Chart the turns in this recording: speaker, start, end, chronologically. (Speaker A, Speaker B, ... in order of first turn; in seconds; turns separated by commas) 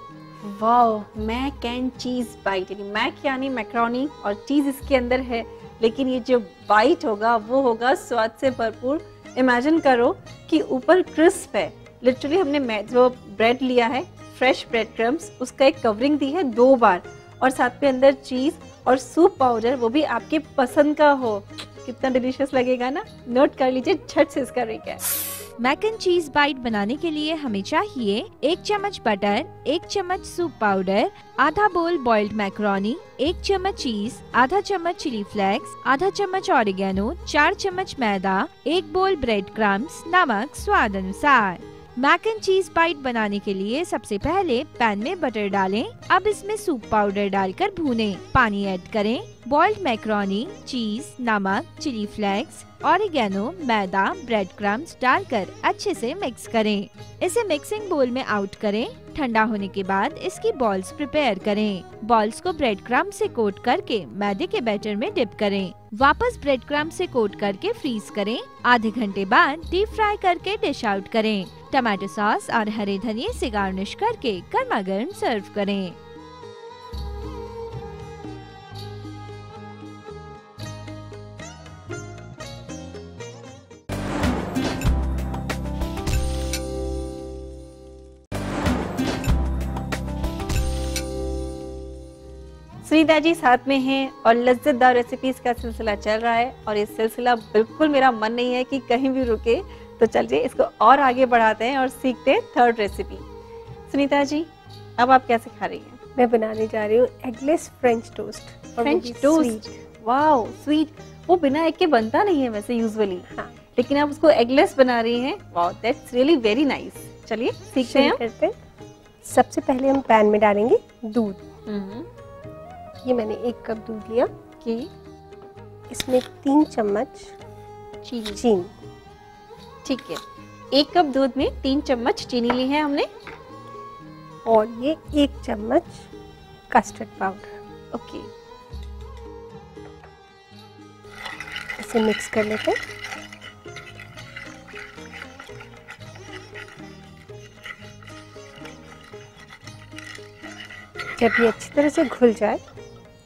Speaker A: 0.4-25.0, Speaker B: 25.6-76.0, Speaker A: 92.8-103.2, Speaker A: 103.9-106.0, Speaker C: 106.2-109.8, Speaker A: 108.8-118.2, Speaker C: 117.8-118.5, Speaker C: 119.2-121.4, Speaker A: 121.7-122.1, Speaker C: 123.0-124.3, Speaker A: 124.6-124.9, Speaker C: 125.9-127.3, Speaker A: 128.0-128.4, Speaker C: 128.3-128.7, Speaker A: 129.8-130.2, Speaker A: 130.7-133.1, Speaker C: 134.4-136.1, Speaker C: 136.7-137.6, Speaker A: 137.9-138.3, Speaker C: 141.8-142.8, Speaker C: 151.2-152.6